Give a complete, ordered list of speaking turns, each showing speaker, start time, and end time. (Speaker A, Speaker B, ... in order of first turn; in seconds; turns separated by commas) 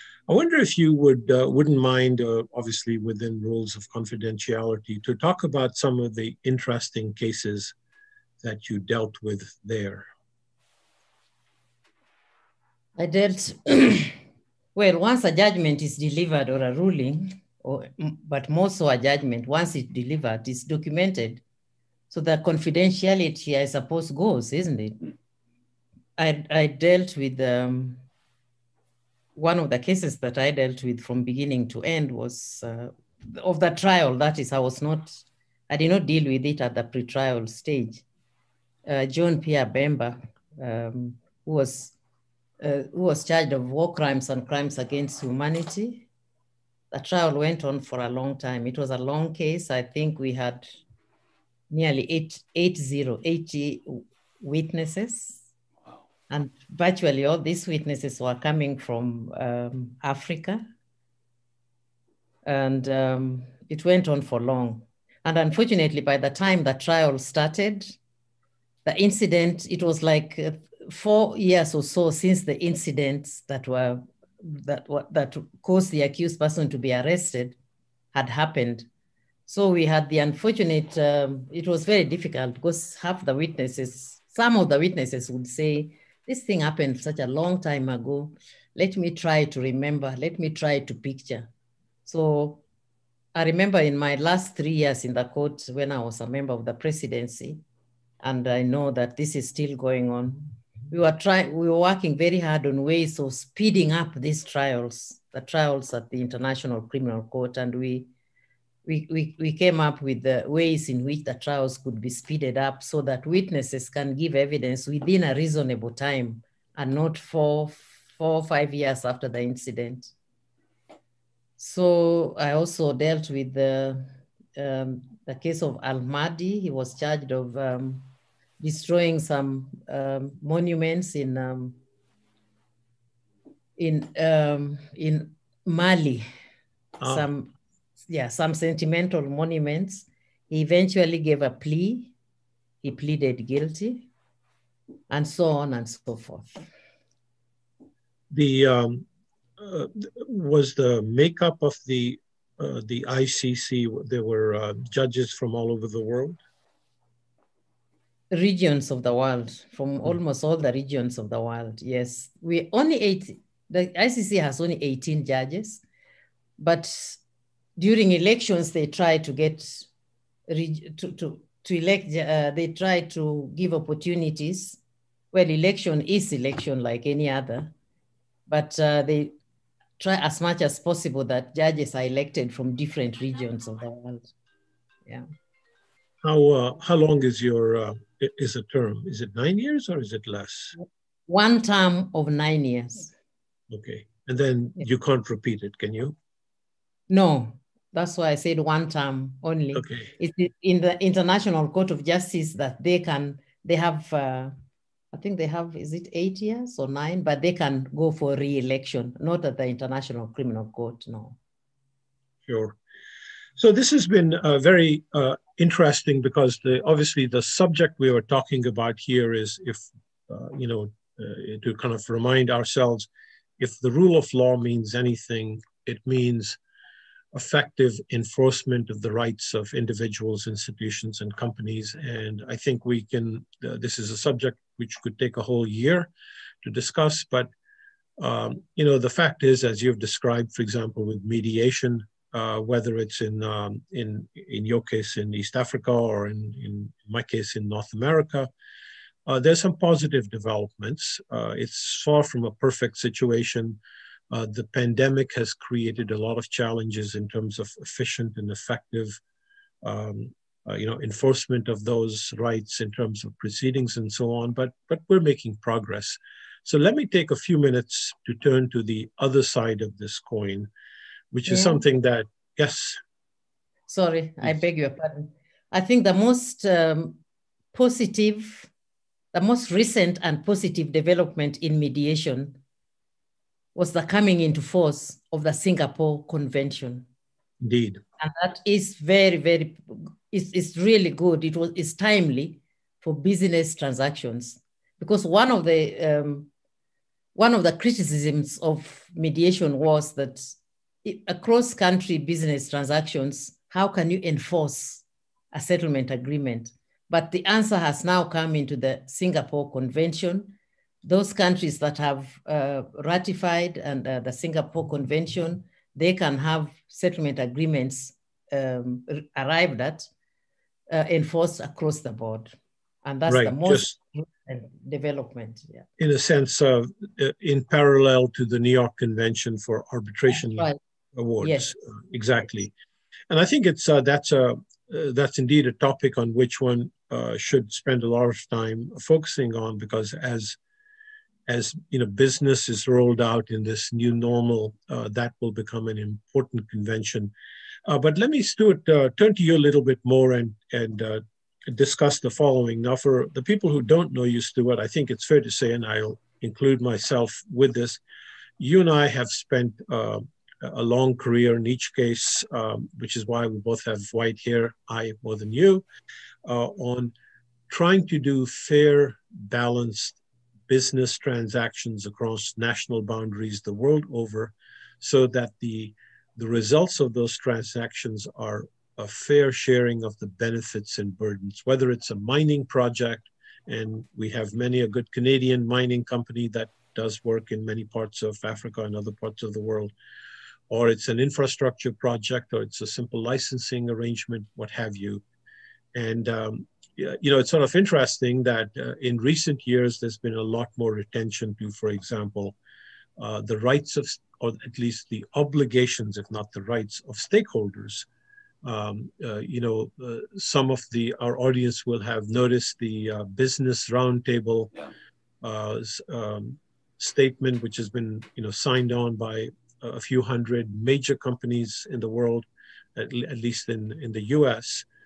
Speaker A: 0.3-7.7, Speaker A: 8.4-10.1, Speaker B: 13.0-14.2, Speaker B: 14.7-21.4, Speaker B: 22.1-25.1, Speaker B: 26.2-28.0, Speaker B: 29.4-38.0, Speaker B: 38.9-41.9, Speaker B: 42.6-46.0, Speaker B: 46.9-50.7, Speaker B: 51.7-55.4, Speaker B: 56.3-60.7, Speaker B: 62.4-68.0, Speaker B: 68.8-77.5, Speaker B: 78.1-78.9, Speaker B: 79.5-91.5, Speaker B: 92.0-92.6, Speaker B: 93.3-97.6, Speaker B: 98.2-108.1, Speaker B: 108.8-120.1, Speaker B: 121.6-131.8, Speaker B: 133.8-136.3, Speaker B: 137.0-137.5, Speaker B: 138.1-142.1, Speaker B: 142.8-144.1, Speaker B: 145.1-146.6, Speaker A: 148.3-149.1, Speaker A: 149.6-156.4, Speaker B: 158.3-165.8, Speaker B: 166.6-167.2, Speaker B: 167.8-169.9, Speaker B: 170.5-174.8, Speaker B: 175.3-177.7, Speaker B: 178.5-179.3, Speaker B: 180.0-184.3, Speaker A: 186.2-190.7, Speaker B: 190.8-193.1, Speaker A: 193.7-196.2, Speaker B: 197.1-204.5, Speaker A: 199.7-200.1, Speaker B: 205.1-211.4, Speaker A: 212.4-212.8, Speaker A: 213.6-226.6, Speaker A: 227.3-236.1, Speaker A: 236.6-237.5, Speaker A: 238.2-248.5, Speaker A: 249.3-253.8, Speaker A: 254.3-259.2, Speaker A: 259.8-270.7, Speaker A: 271.3-273.0, Speaker B: 271.5-271.8, Speaker B: 273.9-277.2, Speaker B: 277.7-278.7, Speaker B: 279.3-282.6, Speaker B: 283.7-287.1, Speaker A: 287.6-288.0, Speaker B: 288.2-296.5, Speaker B: 297.3-320.1, Speaker B: 320.9-325.9, Speaker A: 323.3-323.9, Speaker A: 326.0-332.7, Speaker B: 330.3-330.8, Speaker B: 331.4-331.7, Speaker A: 333.3-340.6, Speaker A: 341.5-347.3, Speaker A: 347.9-358.0, Speaker A: 358.6-365.8, Speaker A: 366.4-367.1, Speaker A: 367.7-389.9, Speaker A: 390.7-395.2, Speaker A: 395.9-402.6, Speaker A: 403.2-408.1, Speaker A: 408.6-414.7, Speaker A: 415.4-424.8